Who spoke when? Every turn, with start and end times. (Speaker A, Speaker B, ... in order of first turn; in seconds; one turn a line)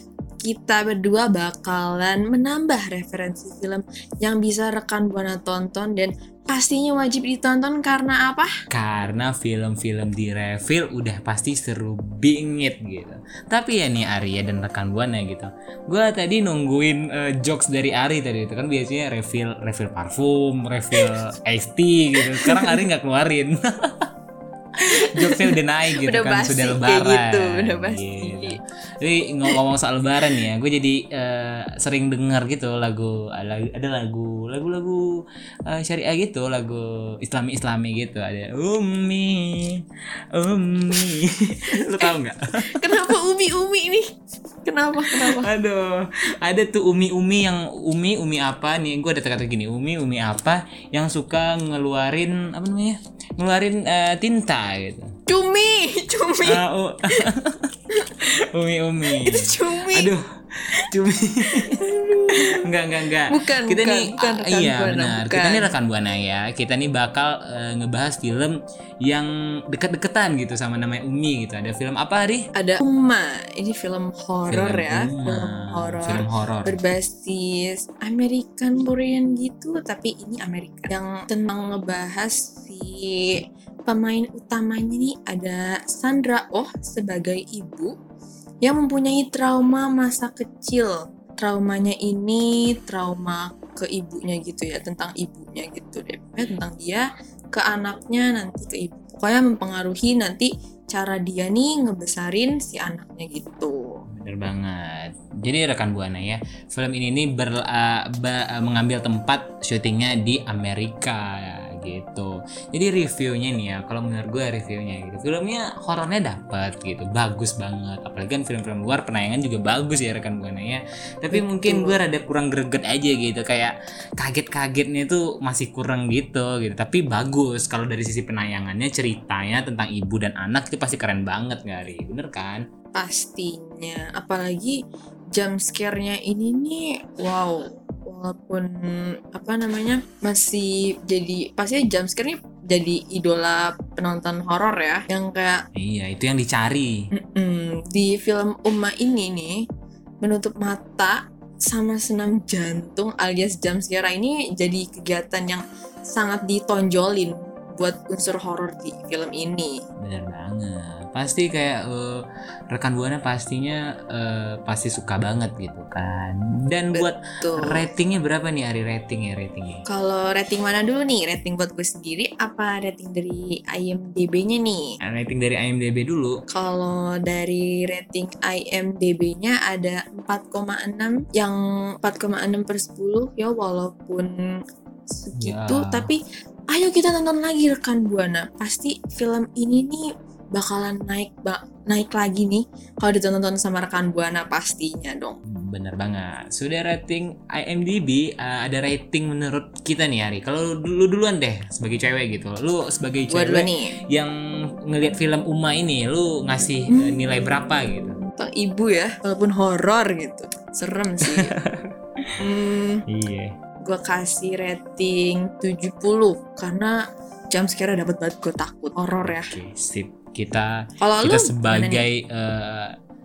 Speaker A: 0.4-8.5
Speaker B: 8.7-24.1
Speaker A: 22.2-22.8
Speaker A: 24.9-28.6
Speaker B: 25.0-35.0
Speaker B: 35.7-43.0
Speaker A: 42.7-44.1
Speaker A: 44.6-45.5
Speaker B: 45.1-55.1
Speaker A: 55.3-56.6
Speaker B: 56.4-60.2
Speaker A: 59.1-60.1
Speaker B: 60.8-72.5
Speaker A: 61.5-62.6
Speaker A: 63.3-65.7
Speaker A: 72.5-87.9
Speaker B: 74.5-76.8
Speaker A: 88.6-103.8
Speaker B: 104.2-132.6
Speaker A: 121.3-122.0
Speaker A: 132.9-134.8
Speaker A: 135.3-145.6
Speaker B: 145.8-147.0
Speaker A: 147.1-149.6
Speaker A: 150.2-159.7
Speaker B: 160.0-169.8
Speaker A: 166.9-167.8
Speaker A: 169.9-174.9
Speaker B: 175.0-176.4
Speaker A: 176.5-184.3
Speaker A: 185.1-186.2
Speaker B: 185.3-186.1
Speaker A: 186.7-190.0
Speaker A: 190.6-195.4
Speaker B: 195.5-204.3
Speaker A: 203.3-203.9
Speaker B: 204.9-208.2
Speaker A: 206.9-207.2
Speaker A: 208.4-211.5
Speaker B: 211.4-212.2
Speaker A: 212.4-213.0
Speaker B: 213.1-213.5
Speaker A: 213.8-217.0
Speaker A: 217.5-219.5
Speaker B: 219.2-222.9
Speaker A: 221.0-222.1